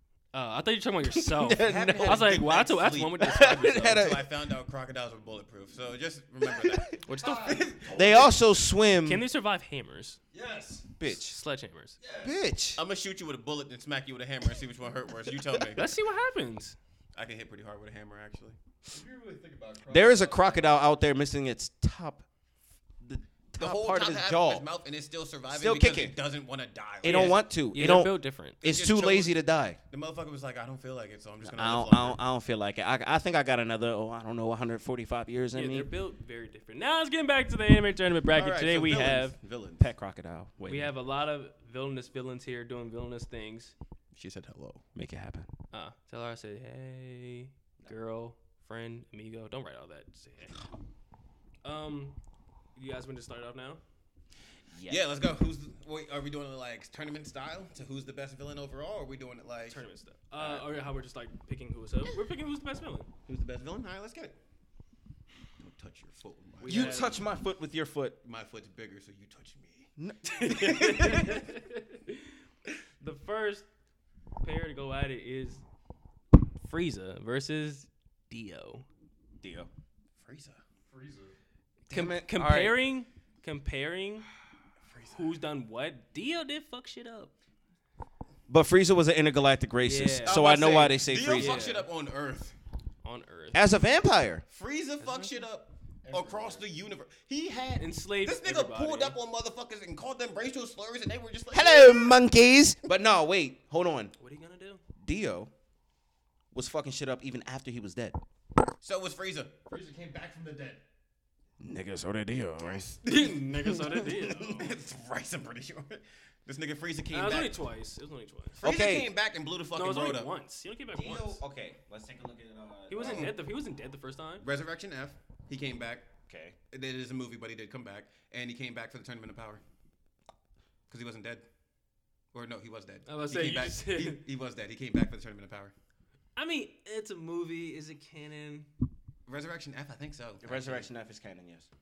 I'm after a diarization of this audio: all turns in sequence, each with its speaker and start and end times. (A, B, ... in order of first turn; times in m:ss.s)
0:00.3-0:04.1 A
0:01.1-0:02.2 B
0:01.6-0:08.3 C
0:03.2-0:04.3 B
0:06.4-0:06.8 B
0:07.0-0:07.6 A
0:07.1-0:08.4 D
0:07.9-0:09.2 B
0:09.0-0:10.2 A
0:10.3-0:10.9 D
0:11.0-0:11.4 B
0:11.1-0:12.0 A
0:12.0-0:12.4 D
0:12.2-0:12.8 B
0:12.8-0:15.9 C
0:15.7-0:16.8 A
0:17.1-0:18.6 C
0:18.9-0:20.9 D
0:19.9-0:22.2 B
0:23.0-0:24.6 B
0:23.6-0:27.4 C
0:25.5-0:26.2 B
0:27.0-0:29.8 B
0:27.0-0:28.6 A
0:28.6-0:29.4 C
0:29.9-0:32.2 C
0:31.4-0:35.9 B
0:35.5-0:39.4 A
0:38.3-0:39.9 C
0:39.8-0:40.9 B
0:40.7-0:43.7 A
0:44.1-0:44.8 C
0:44.9-0:45.5 B
0:45.7-0:50.6 A
0:51.6-0:52.2 A
0:52.8-0:53.8 A
0:54.7-0:55.0 B
0:54.9-0:59.8 C
0:59.7-1:03.1 A
1:00.4-1:00.6 B
1:03.3-1:04.4 C
1:05.6-1:07.1 C
1:06.6-1:07.2 A
1:06.6-1:08.2 B
1:08.2-1:09.9 C
1:10.0-1:10.9 B
1:10.3-1:12.4 A
1:10.4-1:11.4 C
1:13.0-1:13.6 A
1:14.4-1:15.6 A
1:16.6-1:18.9 A
1:19.4-1:19.7 B
1:20.2-1:20.6 C
1:20.9-1:21.4 D
1:21.9-1:22.8 B
1:21.9-1:24.3 A
1:24.8-1:25.4 C
1:25.1-1:27.3 A
1:28.5-1:31.6 B
1:29.8-1:30.7 A
1:30.3-1:32.6 C
1:31.4-1:31.9 A
1:33.0-1:33.7 A
1:33.5-1:34.4 B
1:34.5-1:42.2 C
1:35.0-1:35.3 A
1:36.0-1:36.7 D
1:37.8-1:39.2 A
1:41.5-1:44.1 B
1:44.2-1:44.8 A
1:45.0-1:45.5 B
1:46.5-1:48.2 B
1:48.8-1:49.5 C
1:49.7-1:50.8 D
1:51.6-1:53.0 B
1:53.0-1:54.7 A
1:53.6-1:54.4 B
1:54.6-1:57.6 C
1:57.1-1:58.6 A
1:58.6-1:59.1 B
1:58.6-2:00.3 C
1:59.8-2:01.4 A
2:00.9-2:03.3 B
2:02.9-2:04.4 A
2:03.0-2:03.3 C
2:04.4-2:06.1 C
2:06.3-2:06.6 B
2:06.7-2:09.6 C
2:10.9-2:11.4 C
2:12.3-2:15.7 C
2:13.1-2:14.2 A
2:16.4-2:18.7 A
2:19.3-2:20.9 C
2:20.4-2:21.7 B